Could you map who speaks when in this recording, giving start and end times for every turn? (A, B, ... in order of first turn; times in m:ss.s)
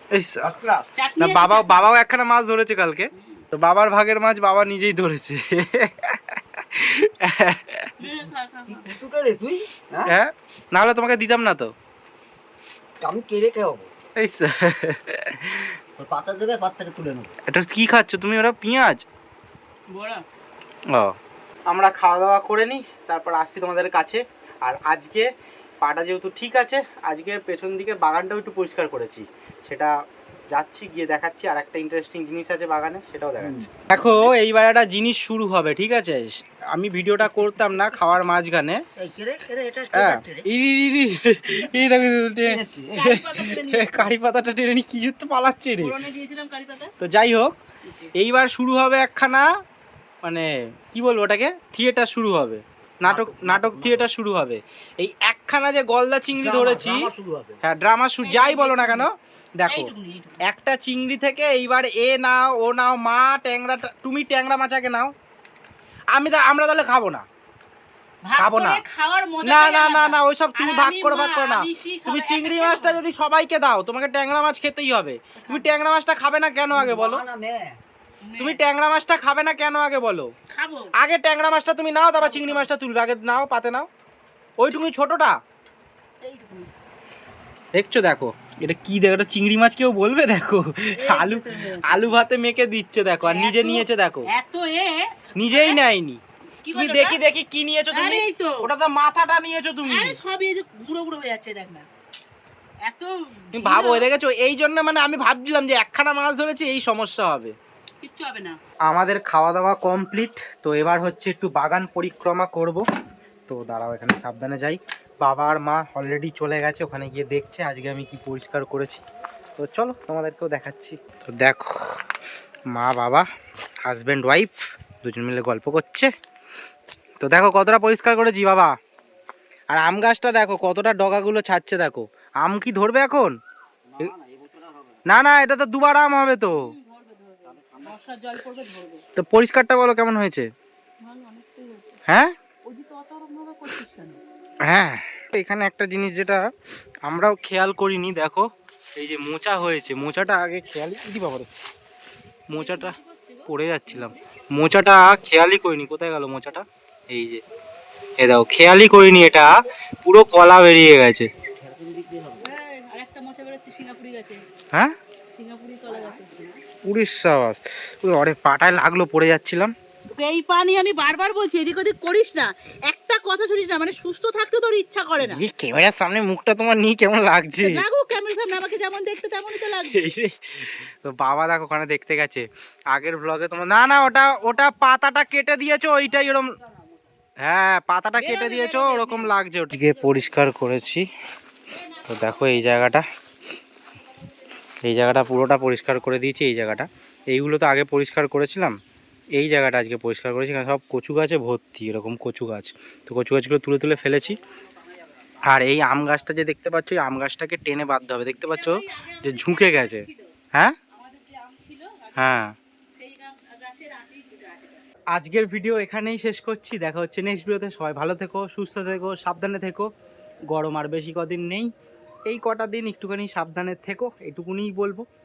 0:00.1-0:07.9 A
0:00.4-0:00.9 B
0:00.9-0:01.9 C
0:03.1-0:03.4 C
0:08.0-0:08.9 C
0:08.7-0:10.1 B
0:10.0-0:11.7 A
0:13.0-0:13.9 B
0:14.2-0:15.4 A
0:15.4-0:17.3 B
0:17.5-0:19.0 A
0:19.9-0:20.2 C
0:21.7-0:25.3 A
0:25.8-0:29.9 A
0:30.5-0:38.8 A
0:33.4-0:33.7 B
0:39.0-0:40.5 B
0:39.9-0:45.9 A
0:42.4-0:43.1 B
0:42.9-0:44.1 C
0:45.8-0:46.9 C
0:47.0-0:47.6 A
0:48.1-0:49.4 A
0:50.2-0:57.1 A
0:53.0-0:54.0 B
0:56.4-0:57.6 B
0:57.6-0:59.9 A
0:58.2-0:59.1 C
0:59.6-1:00.4 C
1:00.4-1:05.1 A
1:06.1-1:07.2 A
1:08.2-1:13.0 C
1:08.4-1:08.8 A
1:09.4-1:17.2 A
1:15.4-1:15.7 C
1:16.7-1:17.8 B
1:18.2-1:18.6 C
1:18.4-1:20.3 A
1:20.5-1:20.9 C
1:21.0-1:23.9 A
1:22.2-1:22.7 C
1:24.6-1:25.4 A
1:26.2-1:26.7 C
1:27.7-1:34.3 A
1:30.9-1:32.0 C
1:33.2-1:35.8 C
1:35.4-1:36.2 A
1:36.6-1:37.2 C
1:36.7-1:40.2 A
1:37.9-1:38.7 C
1:39.8-1:41.9 C
1:42.8-1:44.1 C
1:43.5-1:47.5 A
1:48.0-1:48.6 C
1:48.9-1:52.8 A
1:53.5-1:59.0 A
1:59.6-2:01.8 A
2:02.7-2:03.2 A
2:03.9-2:06.1 A
2:07.2-2:08.7 A
2:09.7-2:13.4 A
2:13.9-2:15.0 B
2:15.0-2:16.7 A
2:16.5-2:19.0 C
2:17.5-2:17.9 B
2:19.2-2:20.5 A
2:21.0-2:22.0 C
2:22.1-2:22.3 A
2:22.6-2:24.2 C
2:24.6-2:26.4 A
2:27.0-2:31.5 A
2:32.5-2:33.0 A
2:32.5-2:34.2 C
2:33.5-2:37.4 A
2:38.2-2:41.3 A
2:41.6-2:42.5 B
2:42.4-2:44.4 C
2:45.4-2:46.6 C
2:46.8-2:49.7 A
2:50.1-2:55.4 C
2:55.2-2:57.8 A
2:57.6-3:00.1 C
2:59.8-3:06.5 A
3:07.4-3:11.1 A
3:08.2-3:10.3 C
3:12.0-3:13.0 A
3:14.8-3:18.8 A
3:19.4-3:24.4 A
3:25.4-3:30.8 A
3:28.5-3:30.3 C
3:30.9-3:32.2 C
3:32.1-3:32.5 A
3:33.0-3:34.9 C
3:35.1-3:39.9 A
3:40.5-3:41.7 A
3:42.2-3:45.0 A